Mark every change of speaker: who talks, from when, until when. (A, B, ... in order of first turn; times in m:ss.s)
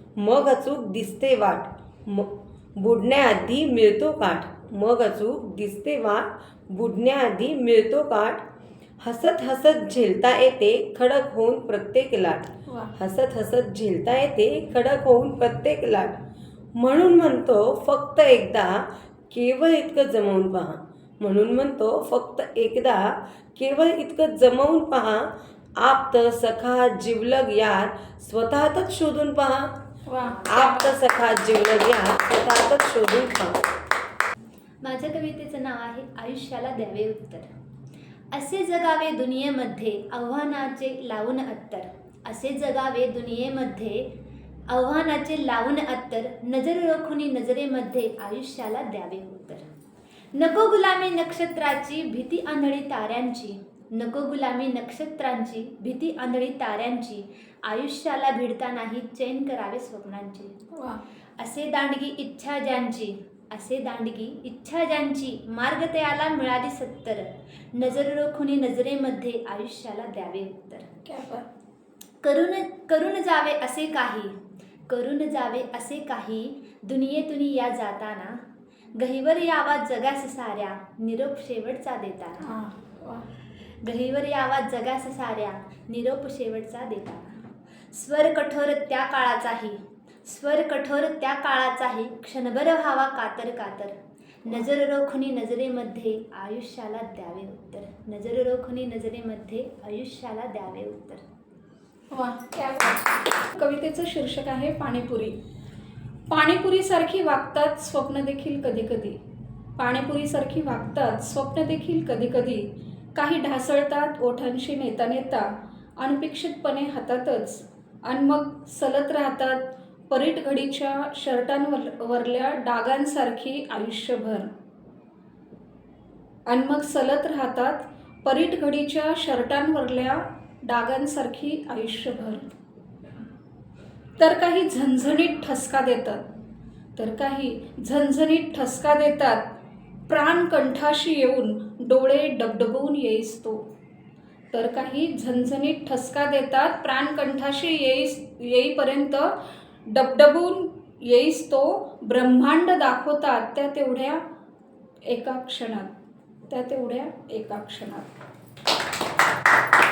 0:00.2-0:08.4 A
0:09.0-0:16.1 A
0:12.7-0:12.9 B
0:16.8-0:18.8 A
0:19.3-0:25.3 A
0:25.8-0:29.7 A
0:30.1-0:30.9 B
0:30.5-0:33.6 A
0:34.8-0:37.4 C
0:38.3-0:44.1 C
0:44.7-0:49.6 C
0:50.4-1:00.5 C
1:00.7-1:01.0 B
1:01.4-1:10.8 C
1:11.0-1:11.4 B
1:12.2-1:14.3 C
1:14.9-1:18.4 C
1:19.0-1:22.4 C
1:22.4-1:23.2 B
1:23.8-1:27.2 C
1:27.9-1:33.9 C
1:34.4-1:41.2 C
1:42.1-1:45.4 B
1:46.3-1:49.2 B
1:49.8-2:04.5 B
2:06.4-2:12.5 B
2:14.2-2:16.2 B
2:17.0-2:19.4 B
2:20.1-2:23.6 B
2:24.5-2:29.3 B
2:29.9-2:34.2 B
2:35.1-2:35.9 B
2:36.5-2:38.1 B